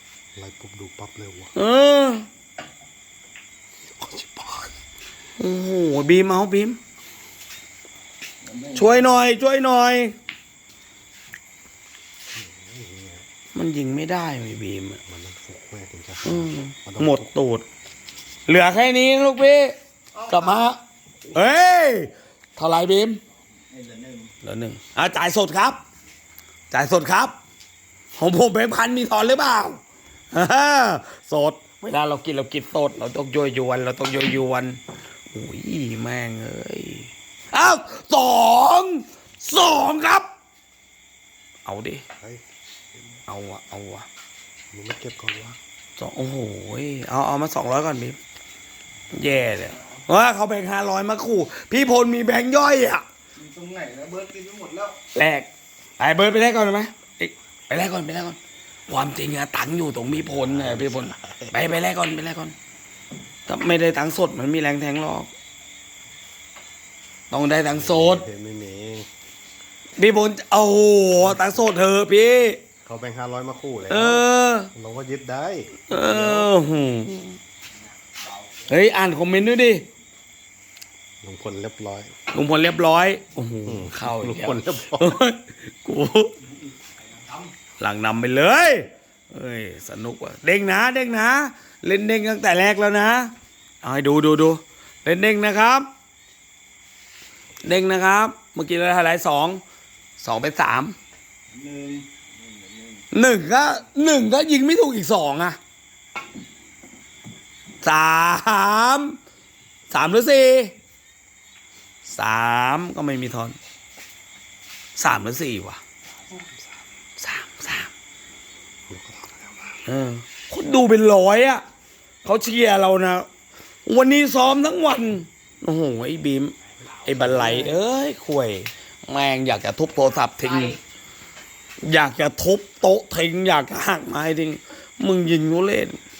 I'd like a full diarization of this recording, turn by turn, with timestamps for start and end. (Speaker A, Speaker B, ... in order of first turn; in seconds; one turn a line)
Speaker A: 0.3-1.5
Speaker B: 1.6-2.2
Speaker A: 3.9-4.7
Speaker B: 5.4-6.8
Speaker C: 8.4-9.1
Speaker B: 8.7-10.2
Speaker A: 12.3-13.2
Speaker B: 13.5-15.0
Speaker A: 15.1-17.3
Speaker B: 16.2-17.7
Speaker B: 18.5-19.8
Speaker B: 20.2-20.8
Speaker B: 21.3-23.2
Speaker C: 23.7-24.3
Speaker B: 24.4-25.8
Speaker B: 26.7-27.3
Speaker B: 28.2-29.8
Speaker B: 30.3-40.3
Speaker B: 41.6-42.0
Speaker B: 43.3-44.1
Speaker A: 44.7-45.6
Speaker B: 46.0-48.2
Speaker B: 49.1-53.0
Speaker C: 53.4-55.0
Speaker B: 55.1-62.5
Speaker A: 60.1-61.6
Speaker B: 63.5-65.3
Speaker B: 67.3-68.2
Speaker A: 67.7-69.1
Speaker B: 70.0-72.6
Speaker A: 71.2-71.5
Speaker A: 72.8-76.5
Speaker B: 73.9-74.7
Speaker B: 75.9-77.4
Speaker C: 78.2-78.7
Speaker B: 78.7-79.8
Speaker A: 81.2-82.1
Speaker B: 82.3-86.3
Speaker A: 83.7-85.2
Speaker C: 86.8-87.5
Speaker B: 87.8-93.3
Speaker B: 93.8-95.9
Speaker B: 97.6-99.6
Speaker B: 100.2-101.0
Speaker C: 101.5-103.0
Speaker B: 103.1-105.6
Speaker B: 107.8-109.2
Speaker B: 109.9-110.7
Speaker B: 112.1-113.6
Speaker B: 115.0-115.8
Speaker A: 116.3-116.6
Speaker B: 117.2-117.9
Speaker A: 118.9-119.8
Speaker B: 119.9-121.6
Speaker B: 122.2-123.2
Speaker B: 123.9-130.8
Speaker C: 126.9-127.6
Speaker A: 127.3-127.7
Speaker B: 131.8-136.0